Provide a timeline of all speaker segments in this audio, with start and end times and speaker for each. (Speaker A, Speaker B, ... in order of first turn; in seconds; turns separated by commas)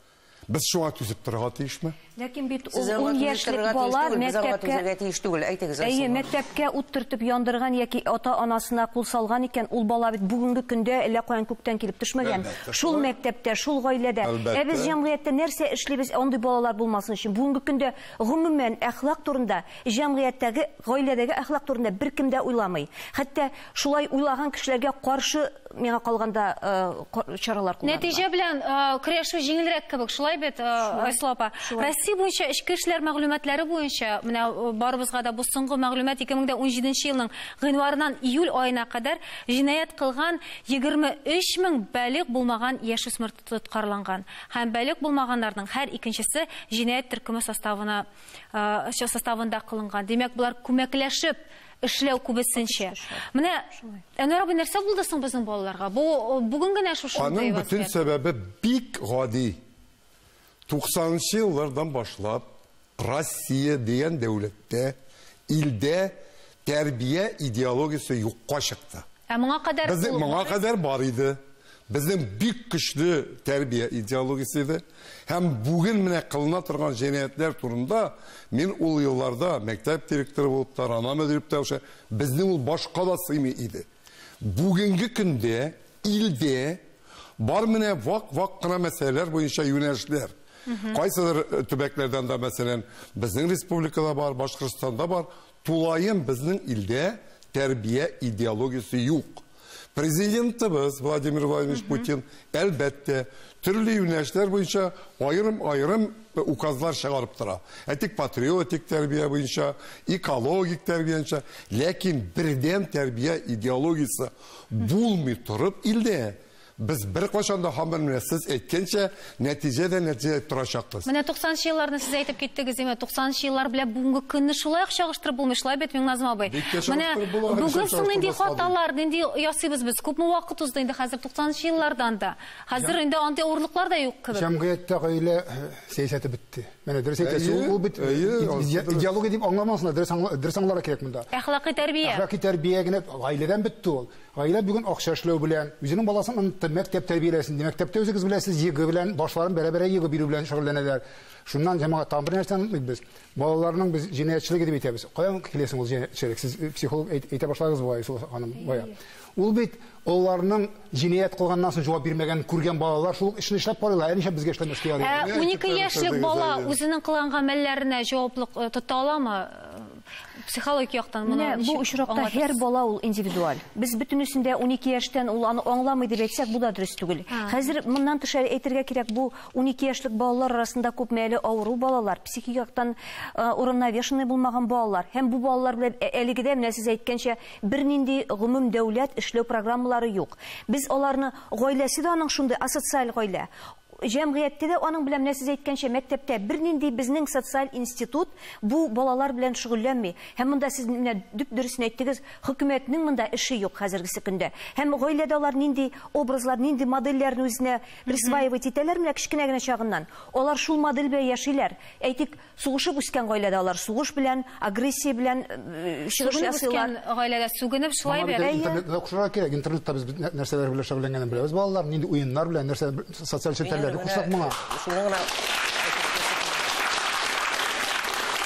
Speaker A: 0.5-2.0, Speaker B: 2.1-4.8, Speaker C: 2.7-6.4, Speaker B: 5.8-28.2, Speaker A: 12.2-13.1, Speaker A: 14.2-14.9, Speaker D: 27.8-58.0, Speaker B: 30.8-31.9, Speaker B: 52.6-53.2, Speaker A: 57.1-59.6, Speaker A: 60.7-62.5, Speaker A: 63.0-65.0, Speaker A: 65.5-69.0, Speaker D: 69.3-70.6, Speaker A: 69.8-83.8, Speaker A: 84.4-86.8, Speaker A: 87.4-90.3, Speaker D: 90.7-91.0, Speaker A: 90.9-99.4, Speaker A: 99.9-121.1, Speaker D: 101.7-102.0, Speaker D: 121.0-134.4, Speaker A: 126.5-128.7, Speaker E: 134.3-141.3, Speaker A: 137.2-139.1, Speaker D: 141.3-142.2, Speaker E: 142.0-165.3, Speaker D: 165.0-169.9, Speaker A: 165.1-166.8, Speaker D: 170.5-172.6, Speaker B: 171.2-193.5, Speaker D: 177.3-177.6, Speaker B: 194.0-216.9, Speaker D: 208.1-208.4, Speaker D: 216.2-218.6, Speaker E: 218.0-224.6, Speaker B: 218.4-218.8, Speaker C: 223.6-226.7